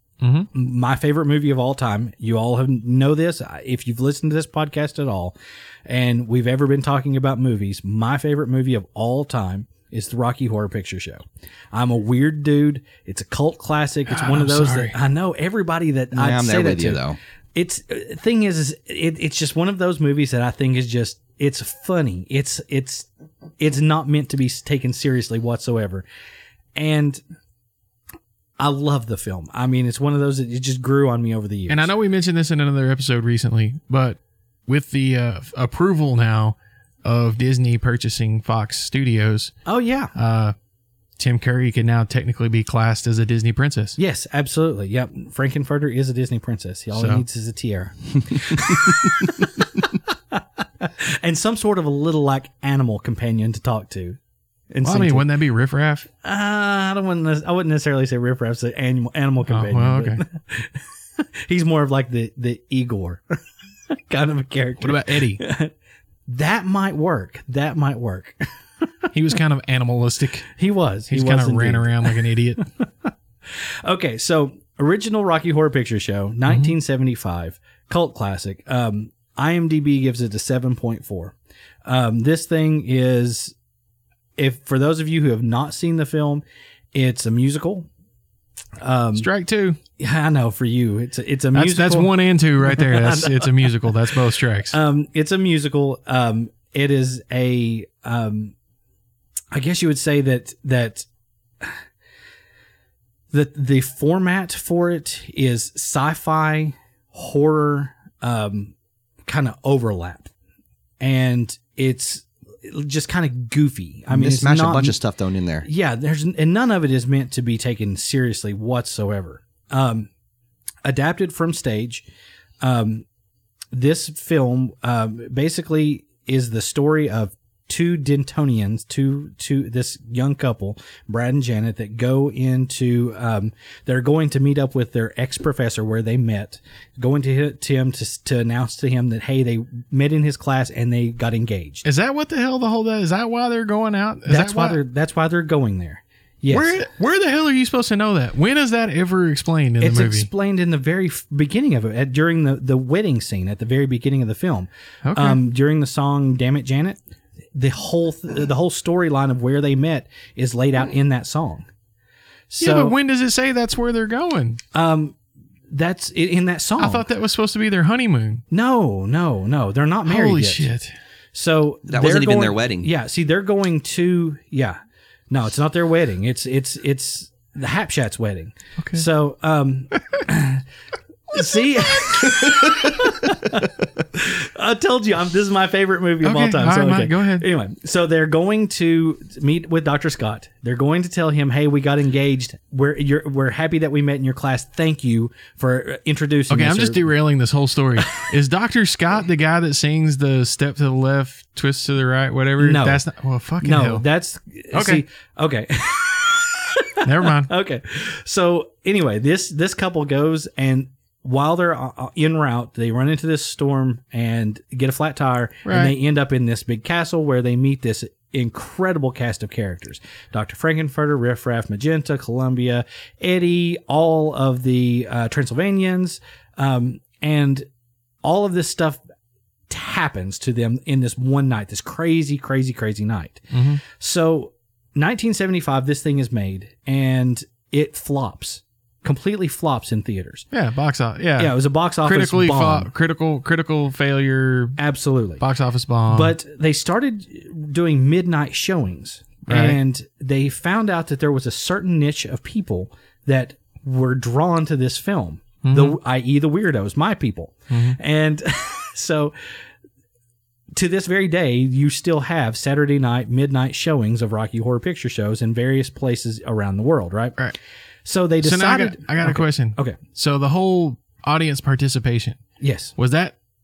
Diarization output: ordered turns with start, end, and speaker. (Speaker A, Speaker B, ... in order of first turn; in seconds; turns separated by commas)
Speaker A: 0.2-0.5, Speaker B: 0.5-5.3, Speaker B: 5.8-17.0, Speaker A: 14.1-14.9, Speaker C: 16.1-17.2, Speaker B: 17.5-23.1, Speaker B: 23.6-26.0, Speaker B: 26.8-27.2, Speaker B: 28.6-31.9, Speaker A: 31.7-39.5, Speaker B: 39.6-40.1, Speaker A: 40.1-40.5, Speaker A: 41.2-44.0, Speaker B: 44.0-54.2, Speaker A: 46.9-47.2, Speaker B: 54.7-55.3, Speaker A: 54.8-56.1, Speaker B: 56.2-63.2, Speaker A: 59.5-60.2, Speaker B: 63.9-65.7, Speaker A: 64.8-65.4, Speaker B: 66.3-68.4, Speaker A: 69.1-70.5, Speaker B: 70.6-83.5, Speaker A: 71.1-72.6, Speaker A: 76.5-76.7, Speaker B: 84.4-86.4, Speaker B: 86.9-87.9, Speaker B: 88.8-89.3, Speaker A: 89.2-89.8, Speaker B: 90.0-94.2, Speaker A: 91.5-94.8, Speaker B: 94.7-98.5, Speaker B: 99.5-101.0, Speaker B: 103.3-108.7, Speaker B: 109.2-110.3, Speaker B: 111.0-115.0, Speaker C: 114.1-115.7, Speaker B: 115.6-120.1, Speaker B: 120.8-122.0, Speaker B: 122.6-123.0, Speaker B: 123.7-141.8, Speaker A: 141.8-144.8, Speaker B: 144.3-146.9, Speaker A: 146.5-150.3, Speaker B: 149.8-157.0, Speaker A: 155.0-155.4, Speaker B: 157.5-161.7, Speaker B: 162.5-162.9, Speaker A: 162.6-164.6, Speaker B: 164.7-165.2, Speaker B: 165.7-167.0, Speaker A: 166.8-168.4, Speaker B: 168.5-170.7, Speaker A: 170.1-170.9, Speaker B: 171.3-174.8, Speaker C: 171.9-172.9, Speaker B: 175.3-180.6, Speaker A: 178.8-179.0, Speaker B: 181.3-197.1, Speaker A: 186.2-187.4, Speaker A: 196.5-204.0, Speaker B: 202.6-203.0, Speaker B: 203.6-227.7, Speaker A: 204.7-205.0, Speaker A: 207.0-207.5, Speaker A: 215.7-215.9, Speaker B: 228.2-229.0, Speaker B: 229.7-240.4, Speaker A: 233.5-233.8, Speaker A: 240.5-244.8, Speaker B: 241.4-242.9, Speaker B: 244.8-245.4, Speaker A: 245.4-246.3, Speaker B: 246.1-259.3, Speaker A: 249.5-249.8, Speaker A: 255.6-256.0, Speaker A: 257.7-258.0, Speaker B: 260.8-267.4, Speaker B: 268.0-270.0, Speaker A: 268.4-272.4, Speaker B: 272.6-272.9, Speaker A: 273.0-273.4